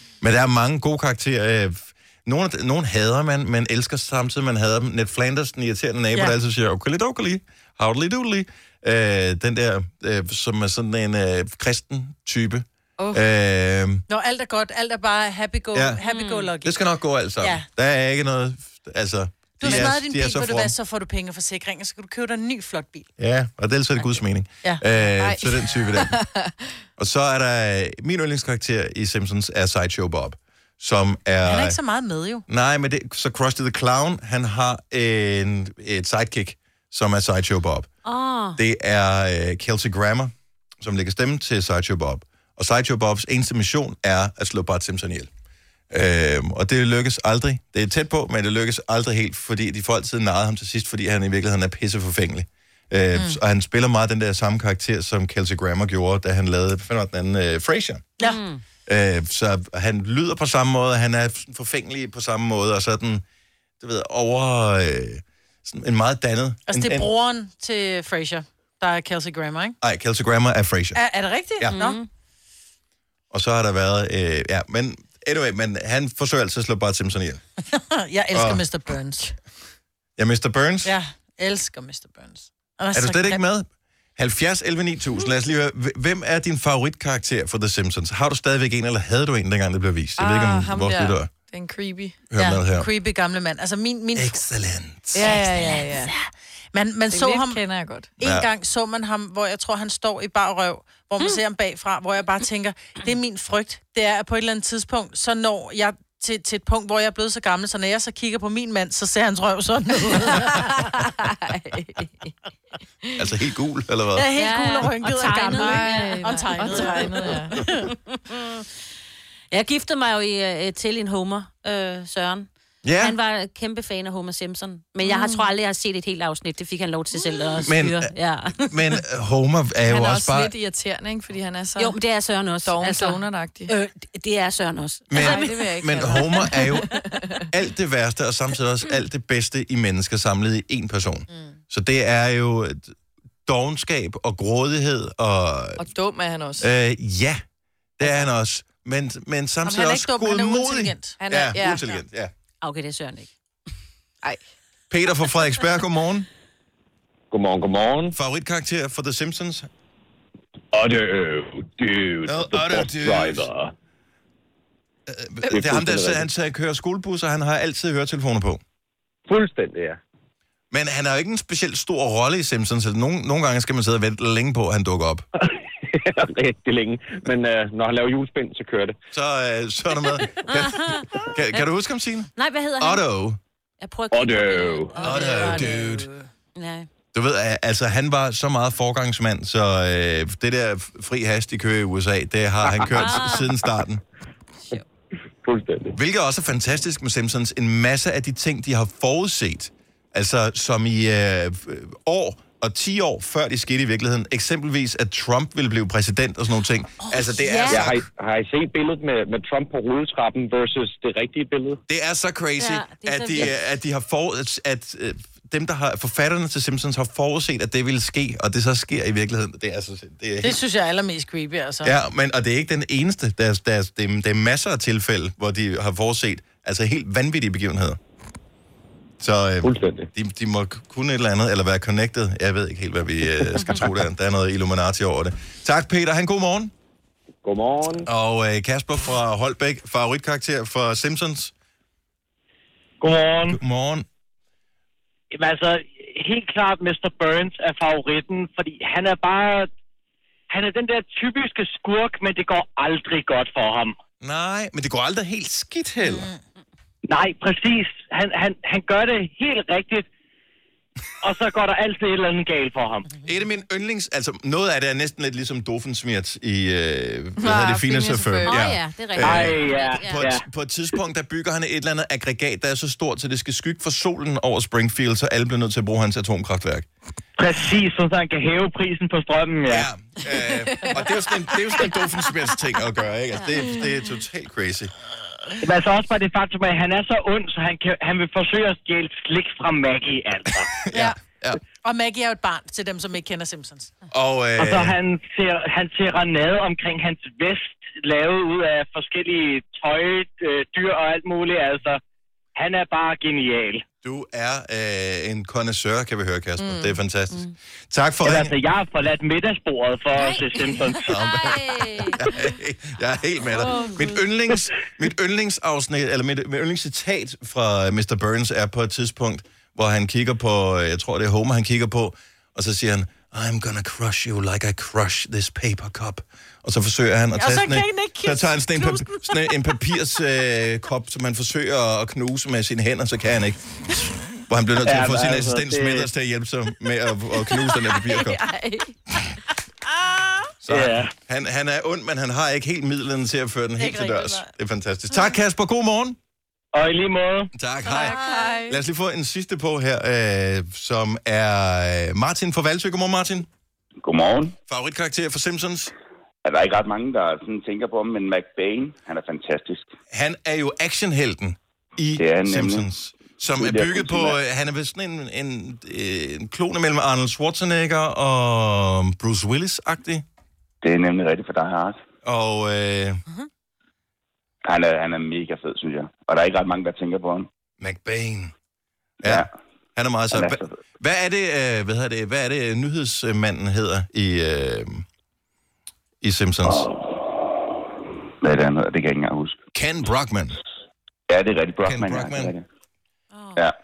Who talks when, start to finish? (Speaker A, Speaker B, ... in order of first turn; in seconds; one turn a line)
Speaker A: 0.2-14.0
Speaker B: 14.1-16.8
Speaker A: 15.7-16.0
Speaker C: 16.0-16.5
Speaker A: 16.6-20.7
Speaker B: 17.4-17.7
Speaker B: 19.6-23.1
Speaker A: 23.2-26.2
Speaker D: 25.2-26.7
Speaker A: 27.0-31.8
Speaker B: 31.4-32.4
Speaker A: 32.5-37.9
Speaker C: 38.0-38.6
Speaker A: 38.6-45.3
Speaker A: 45.9-58.1
Speaker C: 58.2-58.6
Speaker A: 58.9-63.2
Speaker A: 63.8-67.1
Speaker B: 66.7-69.8
Speaker A: 69.8-71.0
Speaker B: 71.0-72.0
Speaker C: 71.7-72.1
Speaker A: 73.3-77.4
Speaker B: 77.7-79.3
Speaker A: 78.3-78.6
Speaker A: 80.2-80.9
Speaker B: 80.8-83.4
Speaker A: 82.9-91.3
Speaker D: 90.2-92.2
Speaker A: 92.3-92.9
Speaker B: 92.4-94.4
Speaker A: 94.2-95.3
Speaker D: 95.1-96.1
Speaker B: 95.2-97.6
Speaker D: 97.1-98.1
Speaker B: 98.2-110.8
Speaker A: 98.2-98.5
Speaker D: 110.3-112.3
Speaker A: 113.2-114.3
Speaker B: 114.2-117.8
Speaker C: 114.4-117.3
Speaker D: 115.5-117.7
Speaker C: 118.1-118.7
Speaker C: 119.5-122.5
Speaker A: 122.8-123.2
Speaker C: 123.0-129.0
Speaker D: 125.0-125.5
Speaker A: 127.6-130.5
Speaker D: 129.8-132.0
Speaker C: 131.8-135.7
Speaker D: 132.6-133.7
Speaker A: 135.1-136.9
Speaker D: 135.2-137.5
Speaker A: 137.5-142.9
Speaker B: 141.3-141.6
Speaker A: 143.5-145.9
Speaker D: 145.8-146.7
Speaker A: 146.6-147.4
Speaker A: 148.0-152.3
Speaker B: 149.7-151.2
Speaker D: 151.2-151.8
Speaker C: 152.6-153.3
Speaker A: 154.9-156.3
Speaker E: 157.3-158.2
Speaker A: 158.1-159.7
Speaker E: 160.7-163.7
Speaker A: 162.3-163.5
Speaker A: 165.1-168.6
Speaker E: 165.5-166.3
Speaker E: 169.3-170.0
Speaker A: 170.7-175.3
Speaker E: 175.4-179.0
Speaker A: 179.1-183.4
Speaker C: 180.4-181.7
Speaker C: 182.3-183.1
Speaker C: 183.8-185.9
Speaker E: 184.1-185.6
Speaker A: 185.0-186.1
Speaker B: 185.2-186.2
Speaker C: 186.6-186.9
Speaker A: 187.1-194.0
Speaker C: 192.9-193.5
Speaker E: 195.4-195.9
Speaker A: 195.9-208.0
Speaker C: 207.4-207.9
Speaker E: 207.7-211.8
Speaker A: 211.9-220.6
Speaker C: 212.6-213.5
Speaker B: 220.4-221.9
Speaker A: 221.8-228.0
Speaker A: 229.2-236.7
Speaker E: 229.6-230.1
Speaker C: 233.6-233.8
Speaker E: 237.4-238.1
Speaker A: 238.0-241.5
Speaker F: 243.0-243.6
Speaker A: 243.5-244.1
Speaker F: 245.3-249.7
Speaker F: 250.5-253.9
Speaker A: 254.2-256.3
Speaker B: 256.0-256.4
Speaker F: 257.1-260.1
Speaker F: 261.2-263.1
Speaker A: 263.2-276.9
Speaker D: 267.4-268.6
Speaker C: 268.4-270.2
Speaker F: 269.2-270.4
Speaker F: 277.4-279.9
Speaker A: 279.7-284.9
Speaker D: 280.3-281.9
Speaker F: 285.6-290.7
Speaker A: 290.8-291.6
Speaker B: 290.9-291.2
Speaker B: 291.8-293.9
Speaker A: 294.1-295.0
Speaker F: 294.6-302.0
Speaker F: 302.6-303.8
Speaker A: 304.0-308.5
Speaker D: 306.6-307.0
Speaker F: 308.2-311.1
Speaker C: 310.1-310.5
Speaker A: 311.0-333.9
Speaker C: 311.1-312.3
Speaker C: 313.6-314.1
Speaker D: 313.8-314.1
Speaker B: 327.4-329.6
Speaker A: 334.5-338.4
Speaker F: 334.9-336.1
Speaker D: 338.0-339.0
Speaker A: 340.6-346.2
Speaker F: 340.7-341.1
Speaker B: 343.8-344.5
Speaker F: 346.7-347.5
Speaker A: 347.6-353.5
Speaker D: 347.9-348.8
Speaker G: 354.0-354.6
Speaker A: 354.7-355.9
Speaker G: 356.4-359.9
Speaker A: 360.1-370.2
Speaker G: 362.2-362.9
Speaker G: 363.5-364.4
Speaker G: 370.8-372.0
Speaker A: 372.2-373.2
Speaker G: 374.6-377.5
Speaker A: 377.8-378.5
Speaker A: 379.2-385.1
Speaker G: 379.2-379.5
Speaker G: 380.3-380.8
Speaker A: 386.2-386.9
Speaker G: 386.6-387.0
Speaker G: 388.4-389.6
Speaker A: 389.7-390.6
Speaker G: 391.3-392.6
Speaker A: 391.8-392.5
Speaker C: 393.3-393.6